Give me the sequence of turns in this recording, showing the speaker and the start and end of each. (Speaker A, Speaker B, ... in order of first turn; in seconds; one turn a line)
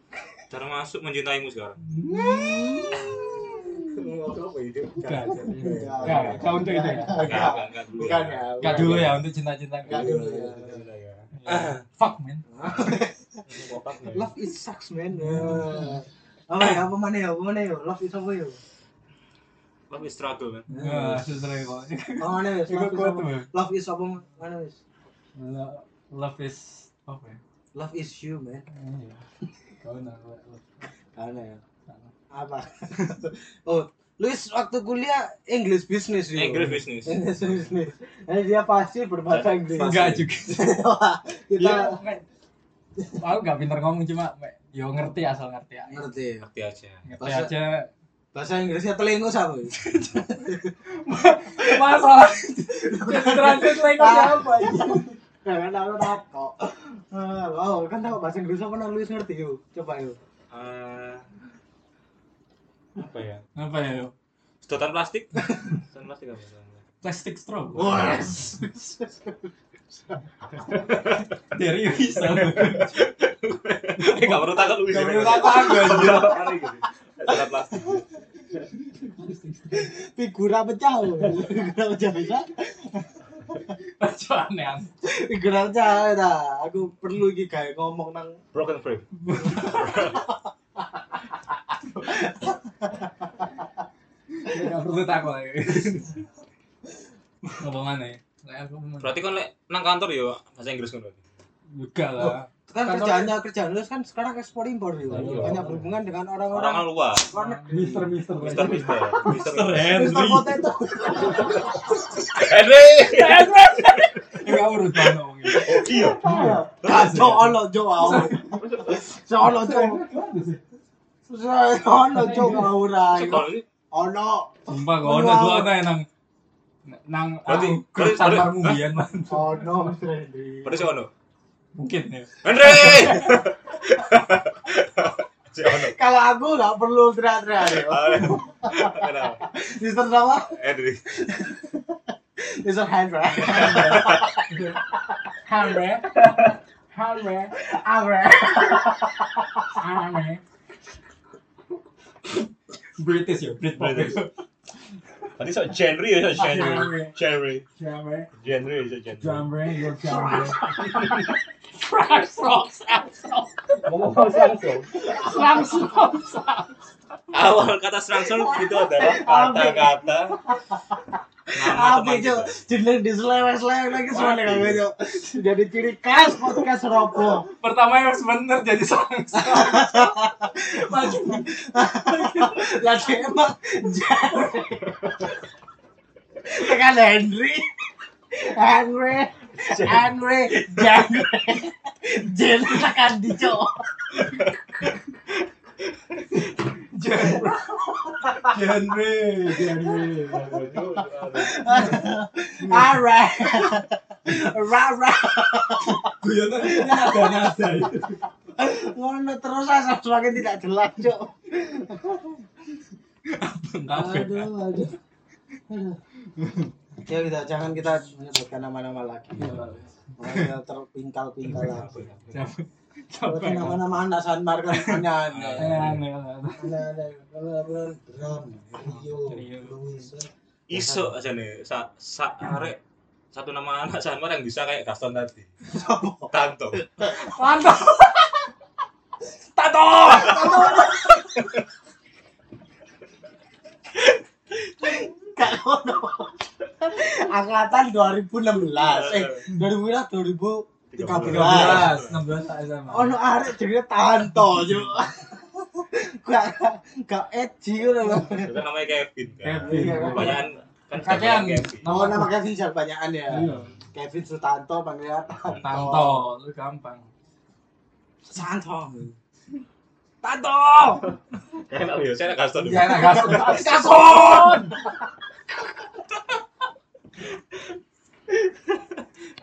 Speaker A: 0.5-1.8
Speaker B: 1.8-3.2
Speaker C: 2.1-4.1
Speaker A: 3.8-6.6
Speaker B: 5.0-7.3
Speaker C: 5.1-9.2
Speaker A: 7.2-9.2
Speaker B: 8.6-10.3
Speaker C: 9.9-10.8
Speaker A: 9.9-11.8
Speaker B: 11.3-12.4
Speaker C: 12.5-13.4
Speaker A: 13.5-14.3
Speaker C: 14.1-18.6
Speaker B: 15.1-16.0
Speaker A: 19.9-20.7
Speaker C: 20.7-21.3
Speaker B: 20.7-23.5
Speaker C: 22.2-24.8
Speaker B: 25.4-27.4
Speaker C: 27.7-28.7
Speaker B: 28.7-29.2
Speaker B: 29.8-30.9
Speaker C: 31.1-31.6
Speaker C: 32.3-42.0
Speaker A: 36.3-37.4
Speaker A: 39.3-40.4
Speaker B: 39.8-40.7
Speaker B: 41.6-42.2
Speaker B: 43.1-46.0
Speaker C: 45.9-46.5
Speaker A: 46.5-47.0
Speaker B: 47.0-47.9
Speaker C: 47.2-47.5
Speaker C: 48.3-50.8
Speaker B: 49.8-50.2
Speaker B: 50.9-55.1
Speaker C: 51.6-52.1
Speaker C: 52.7-60.2
Speaker A: 60.5-61.3
Speaker A: 63.0-63.5
Speaker B: 63.5-64.1
Speaker A: 64.6-66.8
Speaker B: 67.0-68.3
Speaker C: 67.8-69.4
Speaker A: 70.7-71.3
Speaker B: 71.5-73.0
Speaker A: 72.1-78.0
Speaker B: 74.0-76.4
Speaker C: 74.9-76.6
Speaker C: 77.3-78.0
Speaker B: 78.6-79.9
Speaker C: 79.7-83.6
Speaker B: 83.8-84.9
Speaker C: 85.0-88.4
Speaker A: 88.5-90.2
Speaker B: 89.2-90.0
Speaker C: 89.6-90.3
Speaker C: 92.0-93.1
Speaker B: 94.3-96.2
Speaker B: 97.6-99.2
Speaker A: 99.0-101.2
Speaker B: 101.7-103.3
Speaker C: 102.2-108.2
Speaker A: 105.1-105.8
Speaker B: 105.1-105.9
Speaker A: 106.5-107.3
Speaker B: 107.3-118.6
Speaker A: 108.3-110.0
Speaker C: 109.8-112.1
Speaker A: 112.3-114.5
Speaker A: 115.5-116.2
Speaker C: 115.9-120.0
Speaker A: 116.8-117.3
Speaker A: 118.3-119.0
Speaker B: 119.4-120.6
Speaker C: 121.3-125.7
Speaker B: 122.1-122.8
Speaker A: 123.1-123.7
Speaker B: 124.7-126.1
Speaker B: 126.9-129.9
Speaker A: 127.5-128.8
Speaker C: 129.3-131.0
Speaker A: 130.6-131.1
Speaker B: 131.8-133.4
Speaker A: 132.4-136.0
Speaker C: 135.7-145.3
Speaker A: 137.6-139.5
Speaker A: 140.6-141.0
Speaker A: 143.4-144.3
Speaker B: 143.6-144.8
Speaker B: 145.5-147.5
Speaker C: 147.6-149.7
Speaker B: 149.8-150.4
Speaker B: 153.0-154.3
Speaker A: 153.8-154.2
Speaker A: 155.4-157.7
Speaker B: 156.4-157.2
Speaker B: 157.8-158.3
Speaker A: 158.3-159.5
Speaker B: 159.2-166.8
Speaker C: 160.0-160.7
Speaker A: 160.8-161.3
Speaker A: 163.8-165.0
Speaker A: 167.3-170.4
Speaker C: 168.2-177.5
Speaker A: 171.5-172.6
Speaker A: 174.1-174.8
Speaker B: 177.4-182.8
Speaker C: 179.3-185.4
Speaker C: 186.4-187.7
Speaker C: 188.3-194.3
Speaker B: 189.6-191.2
Speaker A: 194.2-194.6
Speaker B: 196.3-200.6
Speaker C: 197.3-198.6
Speaker C: 199.6-200.1
Speaker A: 200.2-202.0
Speaker C: 201.3-212.4
Speaker B: 201.7-203.0
Speaker B: 205.8-208.2
Speaker B: 213.3-214.5
Speaker C: 213.9-214.9
Speaker C: 215.7-216.0
Speaker B: 216.3-216.7
Speaker C: 217.1-219.6
Speaker B: 219.4-220.5
Speaker C: 220.2-221.9
Speaker A: 221.5-222.5
Speaker B: 221.5-223.8
Speaker C: 223.3-226.0
Speaker B: 224.7-225.1
Speaker A: 225.3-226.0
Speaker B: 225.6-226.8
Speaker C: 226.6-231.1
Speaker B: 229.0-229.8
Speaker A: 230.7-232.8
Speaker A: 233.3-235.5
Speaker C: 235.7-236.3
Speaker A: 236.3-236.8
Speaker B: 237.0-238.5
Speaker B: 239.6-241.4
Speaker C: 240.1-241.5
Speaker A: 240.1-240.9
Speaker C: 244.7-252.0
Speaker A: 248.8-249.5
Speaker A: 250.9-252.2
Speaker B: 251.2-253.2
Speaker C: 252.9-258.6
Speaker A: 258.2-262.0
Speaker B: 259.4-260.4
Speaker C: 259.6-260.5
Speaker B: 260.9-262.3
Speaker C: 261.8-266.2
Speaker B: 263.3-263.7
Speaker A: 263.3-263.8
Speaker B: 265.6-267.1
Speaker C: 268.3-269.2
Speaker C: 270.2-271.1
Speaker A: 271.7-273.6
Speaker B: 272.6-274.9
Speaker C: 272.7-274.9
Speaker C: 278.5-278.8